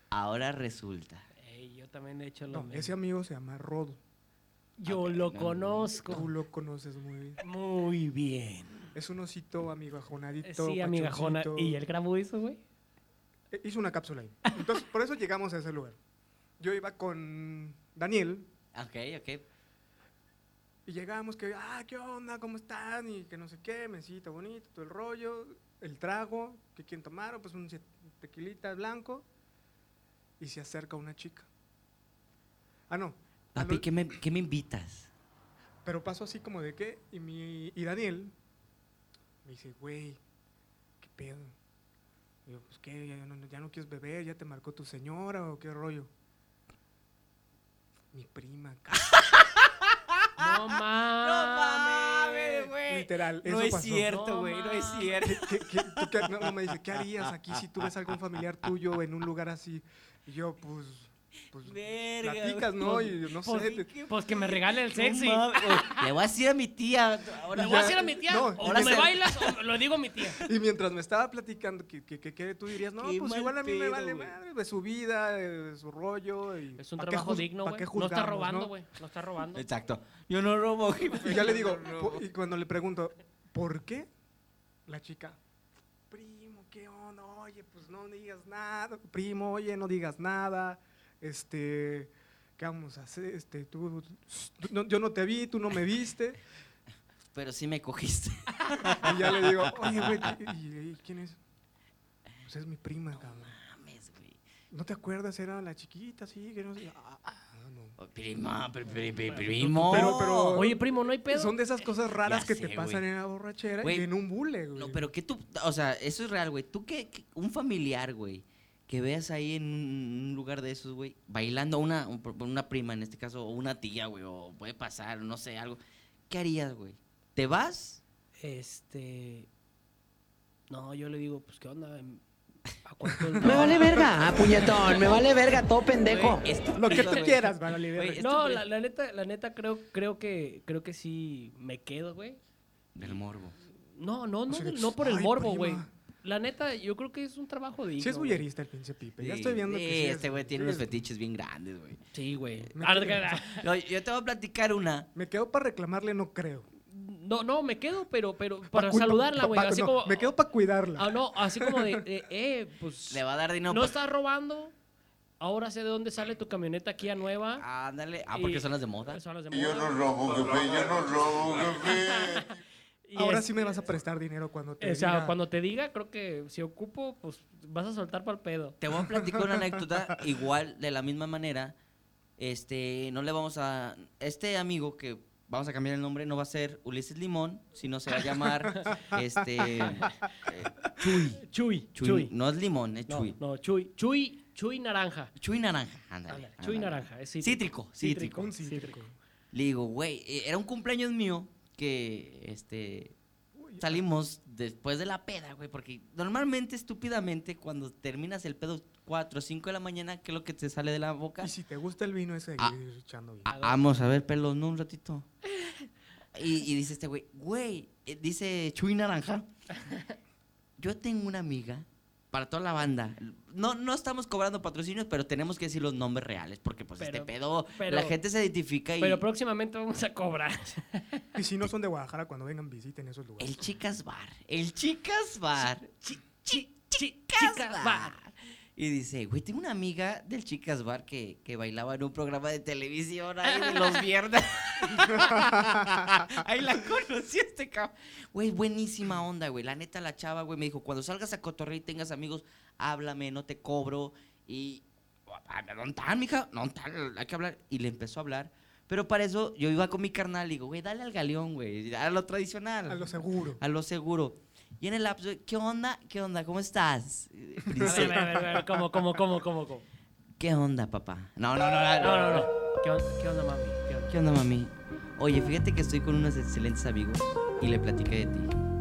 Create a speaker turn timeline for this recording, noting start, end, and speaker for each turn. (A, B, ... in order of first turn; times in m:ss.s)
0:00.1-0:01.2 A
0:01.4-0:02.9 B
0:02.5-0:04.0 C
0:04.8-0:06.2 B
0:04.9-0:06.2 A
0:06.1-0:07.4 C
0:07.4-0:08.9 B
0:09.0-0:11.8 C
0:10.4-0:12.6 B
0:13.5-0:16.0 C
0:16.6-0:18.5 C
0:18.7-0:19.4 A
0:20.9-0:29.3 C
0:30.4-0:31.5 C
0:32.9-0:33.9 C
0:33.6-0:35.1 A
0:35.8-0:38.3 C
0:39.4-0:40.2 C
0:41.0-0:41.6 C
0:42.5-0:46.1 C
0:48.1-0:49.1 C
0:49.0-0:50.5 A
0:50.4-0:52.7 B
0:51.2-0:56.5 A
0:52.8-0:54.2 C
0:54.1-0:55.2 B
0:55.2-1:03.9 C
1:01.6-1:09.6 A
1:03.4-1:06.0 B
1:07.5-1:09.1 C
1:07.6-1:10.4 B
1:10.4-1:18.7 C
1:13.0-1:14.3 A
1:16.8-1:19.6 B
1:19.6-1:22.2 A
1:21.2-1:24.1 C
1:24.9-1:25.4 C
1:26.1-1:36.4 C
1:37.3-1:40.2 A
1:38.9-1:41.4 C
1:42.4-1:43.6 C
1:43.2-1:44.4 A
1:44.7-1:48.0 C
1:48.0-1:50.7 A
1:49.2-1:51.6 B
1:49.6-1:55.1 C
1:52.2-1:53.0 A
1:53.8-1:54.1 A
1:54.8-2:08.0 A
2:08.4-2:09.5 B
2:10.7-2:12.2 B
2:12.8-2:13.9 B
2:13.3-2:13.6 C
2:13.4-2:14.2 A
2:13.5-2:16.4 D
2:14.8-2:15.1 A
2:16.0-2:18.6 A
2:16.7-2:18.3 C
2:18.2-2:22.4 B
2:23.0-2:23.6 A
2:24.0-2:28.5 B
2:24.5-2:25.9 C
2:28.0-2:31.0 C
2:29.2-2:32.0 A
2:32.1-2:33.6 B
2:32.8-2:33.4 C
2:33.6-2:35.1 A
2:35.2-2:36.7 C
2:36.9-2:40.3 B
2:38.7-2:42.0 C
2:41.0-2:44.7 B
2:43.1-2:44.0 A
2:45.4-2:47.6 B
2:47.6-2:49.2 A
2:48.3-2:50.2 B
2:49.5-2:52.5 E
2:51.0-2:52.5 B
2:53.1-2:53.9 B
2:53.2-2:55.4 C
2:54.8-2:58.8 B
2:58.8-3:01.8 A
2:59.2-2:59.8 C
3:02.4-3:13.4 A
3:09.7-3:10.0 B
3:11.4-3:12.3 B
3:13.1-3:15.3 B
3:15.4-3:18.5 A
3:16.3-3:19.0 B
3:18.1-3:19.2 C
3:19.5-3:23.2 A
3:23.6-3:24.0 C
3:23.8-3:31.5 A
3:31.4-3:33.5 C
3:33.5-3:35.3 A
3:33.5-3:33.8 B
3:35.6-3:35.9 B
3:36.3-3:39.5 A
3:39.8-3:40.1 B
3:40.8-3:49.2 A
3:47.0-3:48.2 B
3:49.0-3:51.3 B
3:51.4-3:53.6 C
3:53.4-4:28.5 A
3:56.0-3:58.2 B
4:03.4-4:04.0 B
4:04.9-4:05.3 B
4:05.3-4:05.9 C
4:22.9-4:23.6 C
4:27.7-4:28.8 C
4:27.8-4:29.9 B
4:30.4-4:32.5 A
4:32.0-4:34.1 B
4:34.1-4:38.5 A